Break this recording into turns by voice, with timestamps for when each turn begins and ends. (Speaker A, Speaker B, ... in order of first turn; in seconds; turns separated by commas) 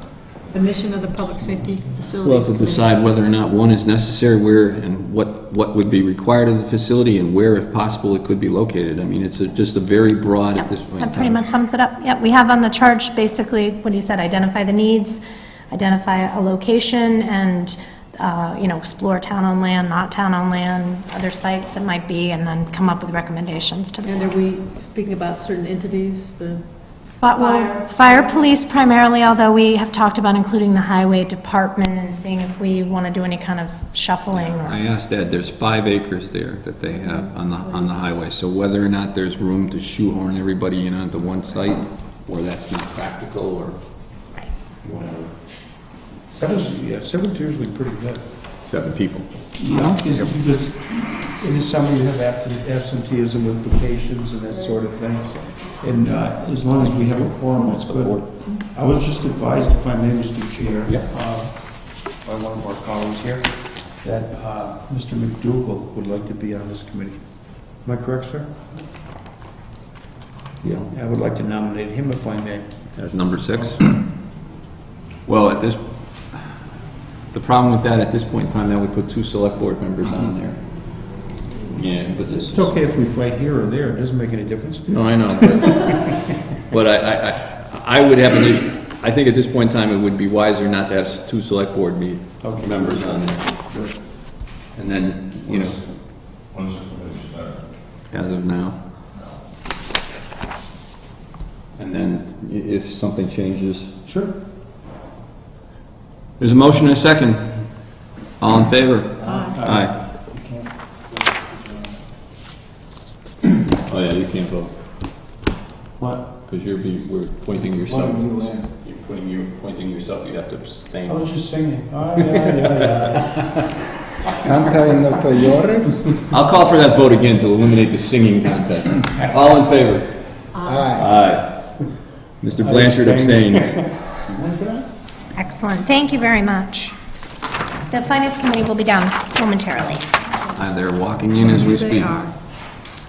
Speaker A: 0.5-2.9, Speaker B: 2.2-11.4, Speaker C: 10.5-24.3, Speaker A: 24.0-28.5, Speaker C: 27.2-34.8, Speaker B: 34.3-43.8, Speaker D: 44.8-45.3, Speaker D: 46.3-48.3, Speaker B: 48.6-49.3, Speaker D: 49.6-61.7, Speaker E: 49.7-50.3, Speaker B: 57.9-58.2, Speaker D: 62.2-67.2, Speaker D: 67.8-68.8, Speaker D: 70.6-73.8, Speaker B: 72.9-74.0, Speaker B: 75.2-76.5, Speaker B: 77.3-80.6, Speaker B: 81.7-82.7, Speaker D: 82.2-85.8, Speaker B: 84.9-93.7, Speaker D: 92.4-93.9, Speaker B: 94.7-95.8, Speaker B: 98.1-98.8, Speaker B: 101.8-103.9, Speaker D: 104.0-104.4, Speaker B: 106.4-107.6, Speaker B: 108.4-110.0, Speaker D: 109.2-110.7, Speaker A: 109.3-109.6, Speaker B: 113.8-114.8, Speaker D: 116.0-116.3, Speaker B: 116.4-121.3, Speaker E: 117.9-118.7, Speaker D: 121.0-123.5, Speaker B: 122.3-122.8, Speaker E: 124.4-126.2, Speaker B: 126.3-130.2, Speaker E: 130.6-131.1, Speaker B: 130.9-131.8, Speaker B: 132.4-133.8, Speaker D: 132.6-134.9, Speaker C: 135.3-137.0, Speaker C: 137.9-140.1, Speaker B: 140.5-142.2, Speaker A: 141.5-142.3